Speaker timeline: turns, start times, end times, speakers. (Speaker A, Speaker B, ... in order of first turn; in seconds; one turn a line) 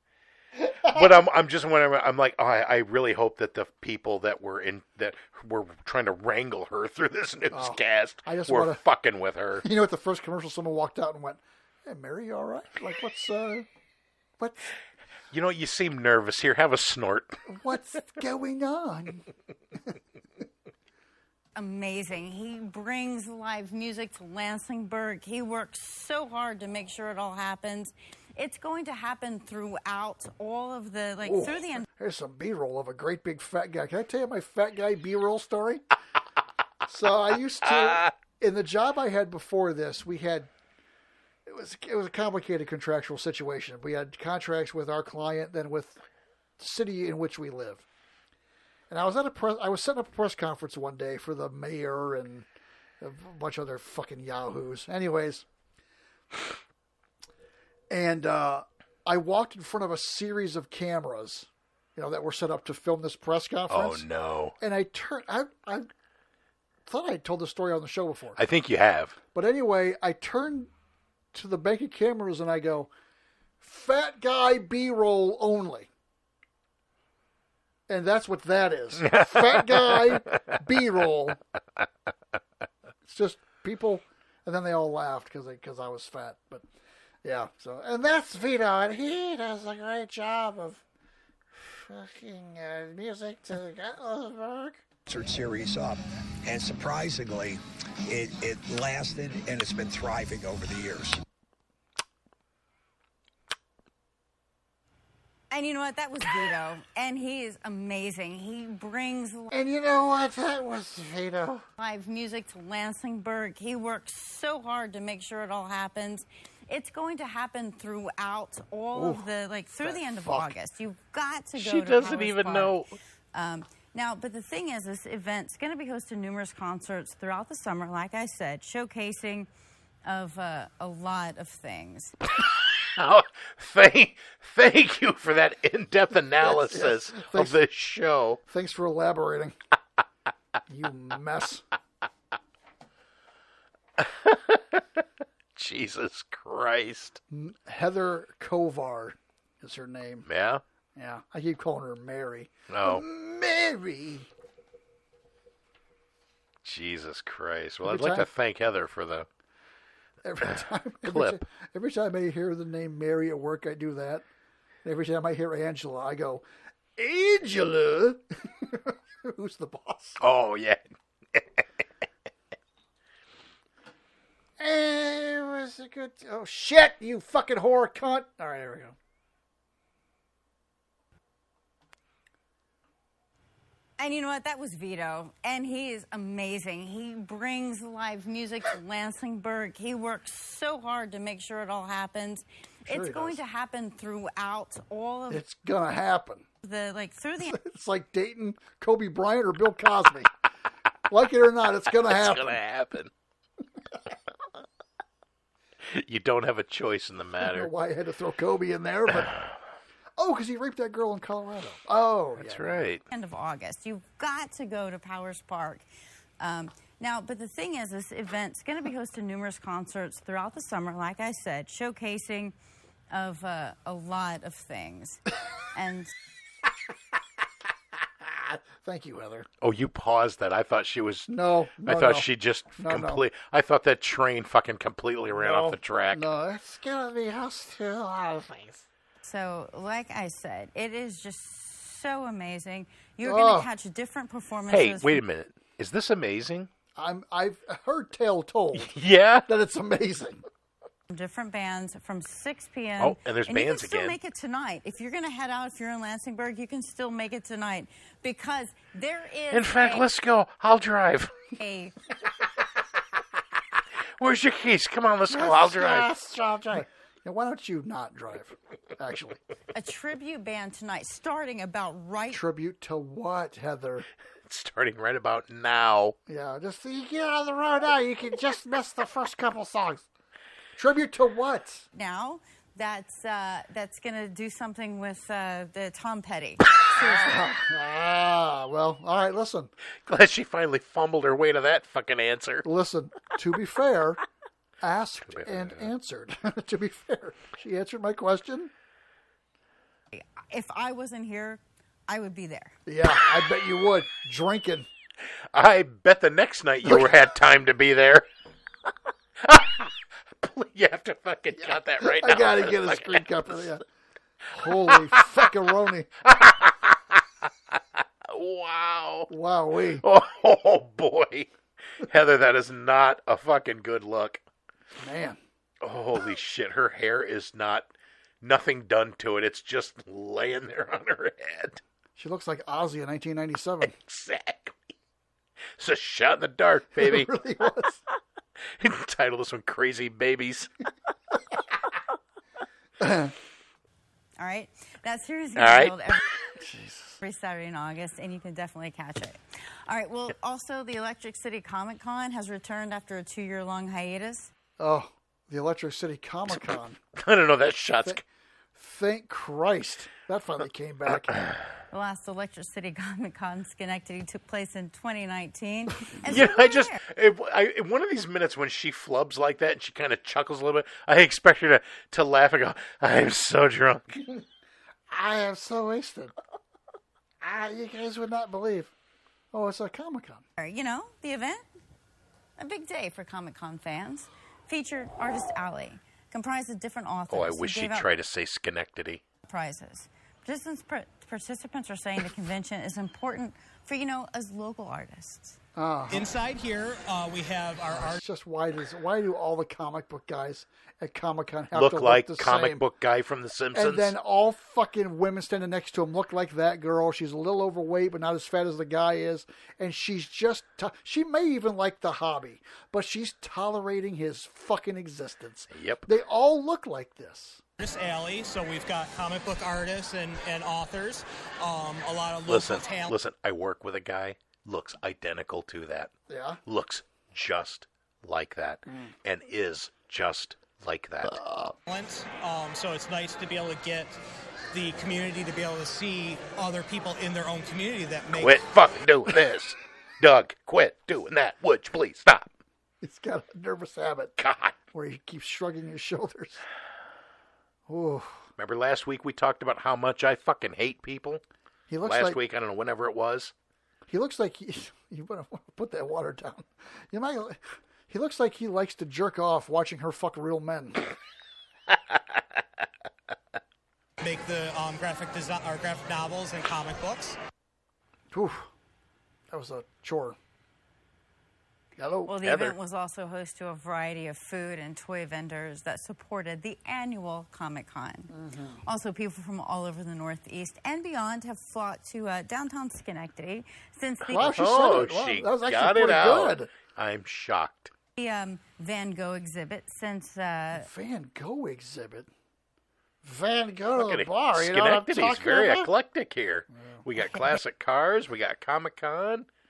Speaker A: 0.8-9.7
Speaker B: 7.5-8.8
Speaker B: 9.6-13.7
Speaker B: 14.4-14.7
Speaker A: 15.3-17.4
Speaker B: 17.5-19.2
Speaker C: 21.6-31.8
Speaker B: 31.2-35.8
Speaker B: 36.8-40.5
Speaker A: 37.8-38.1
Speaker B: 41.5-46.0
Speaker B: 46.6-47.9
Speaker B: 48.9-52.5
Speaker B: 53.0-55.5
Speaker B: 57.9-64.0
Speaker A: 63.7-64.5
Speaker B: 64.6-65.9
Speaker B: 66.8-68.4
Speaker A: 68.4-69.2
Speaker B: 69.3-70.7
Speaker B: 71.3-72.9
Speaker B: 73.6-75.9
Speaker B: 77.9-81.4
Speaker A: 79.1-79.6
Speaker B: 83.0-86.6
Speaker B: 87.2-90.8
Speaker B: 91.6-94.8
Speaker D: 95.1-101.2
Speaker C: 105.5-109.5
Speaker B: 109.5-111.6
Speaker C: 111.8-122.8
Speaker B: 118.9-120.5
Speaker A: 121.5-122.9
Speaker C: 123.3-129.5
Speaker C: 130.1-132.2
Speaker A: 132.9-138.4
Speaker B: 136.4-137.6
Speaker B: 138.5-139.6
Speaker B: 140.7-141.6
Speaker A: 144.0-144.8
Speaker A: 145.6-147.2
Speaker B: 147.3-150.3
Speaker A: 150.3-150.6
Speaker B: 150.9-154.3
Speaker A: 152.7-153.0
Speaker A: 156.6-159.2
Speaker B: 157.8-158.3
Speaker B: 160.2-164.2
Speaker A: 161.0-161.4
Speaker B: 164.8-166.4
Speaker B: 167.0-170.2
Speaker A: 170.2-170.8
Speaker A: 171.3-171.6
Speaker B: 174.6-178.9
Speaker C: 184.0-195.4
Speaker B: 192.8-193.4
Speaker B: 195.3-196.4
Speaker C: 196.6-197.6
Speaker B: 197.5-200.3
Speaker B: 201.1-202.6
Speaker A: 202.0-203.1
Speaker A: 205.9-207.7
Speaker B: 207.4-209.3
Speaker B: 210.2-212.8
Speaker A: 212.4-213.0
Speaker C: 213.1-215.8
Speaker C: 216.4-222.5
Speaker C: 223.1-225.2
Speaker C: 225.7-226.1
Speaker B: 228.4-229.5
Speaker A: 229.6-231.3
Speaker B: 231.3-233.2
Speaker A: 231.8-236.2
Speaker B: 235.3-238.8
Speaker C: 239.2-245.2
Speaker B: 243.2-243.7
Speaker A: 244.7-246.7
Speaker B: 246.9-248.9
Speaker A: 248.7-249.5
Speaker B: 249.5-250.4
Speaker C: 251.1-260.1
Speaker A: 253.0-254.2
Speaker A: 259.5-261.3
Speaker C: 261.6-261.9
Speaker A: 264.2-266.1
Speaker B: 265.3-269.4
Speaker C: 269.7-272.4
Speaker B: 272.3-274.0
Speaker A: 274.5-276.1
Speaker B: 276.3-280.0
Speaker B: 280.8-281.9
Speaker C: 281.9-287.3
Speaker B: 286.9-289.7
Speaker A: 290.1-292.6
Speaker B: 292.6-294.2
Speaker B: 294.8-298.7
Speaker A: 295.3-295.8
Speaker C: 300.1-302.8
Speaker B: 302.9-304.9
Speaker A: 305.5-308.3
Speaker B: 306.8-307.1
Speaker A: 309.4-313.4
Speaker B: 311.6-313.8
Speaker B: 314.5-316.1
Speaker A: 314.7-315.2
Speaker A: 316.2-316.9
Speaker A: 318.3-319.3
Speaker B: 319.3-320.0
Speaker A: 320.0-321.5
Speaker A: 322.0-324.4
Speaker B: 325.0-325.4
Speaker A: 325.8-327.9
Speaker A: 328.4-331.8
Speaker B: 332.1-333.9
Speaker A: 333.8-334.8
Speaker A: 335.8-337.3
Speaker B: 336.9-338.0
Speaker A: 338.8-340.7
Speaker B: 343.0-343.3
Speaker C: 344.4-346.2
Speaker A: 345.6-345.9
Speaker B: 346.5-347.2
Speaker C: 347.2-354.5
Speaker B: 354.8-357.0
Speaker A: 357.1-358.2
Speaker B: 358.8-361.4
Speaker C: 361.9-367.0
Speaker A: 366.2-374.2
Speaker B: 375.1-376.3
Speaker B: 377.4-378.9
Speaker B: 379.5-380.4
Speaker C: 380.6-381.6
Speaker C: 382.6-388.1
Speaker A: 387.3-389.2
Speaker C: 389.5-395.6
Speaker B: 395.8-396.3
Speaker E: 396.1-398.2
Speaker B: 397.9-402.8
Speaker A: 401.7-404.1
Speaker B: 403.7-417.6
Speaker A: 415.7-416.1
Speaker E: 417.8-423.1
Speaker A: 422.5-426.1
Speaker B: 426.3-426.6
Speaker A: 426.7-431.4
Speaker B: 431.2-431.8
Speaker E: 431.9-434.2
Speaker E: 434.7-438.6
Speaker A: 438.4-442.5
Speaker B: 443.0-444.3
Speaker A: 444.4-444.8
Speaker B: 444.9-446.6
Speaker B: 447.9-448.4
Speaker A: 448.6-451.4
Speaker B: 451.9-452.4
Speaker A: 452.0-453.5
Speaker B: 454.1-461.0
Speaker E: 464.2-467.4
Speaker B: 468.3-468.7
Speaker B: 469.5-470.4
Speaker B: 472.0-472.3
Speaker C: 472.2-478.3
Speaker A: 472.4-472.7
Speaker B: 478.3-478.8
Speaker C: 478.8-484.6
Speaker B: 484.3-486.7
Speaker A: 484.4-487.9
Speaker C: 488.2-490.9
Speaker B: 490.7-492.3
Speaker B: 493.2-495.9
Speaker A: 493.9-499.5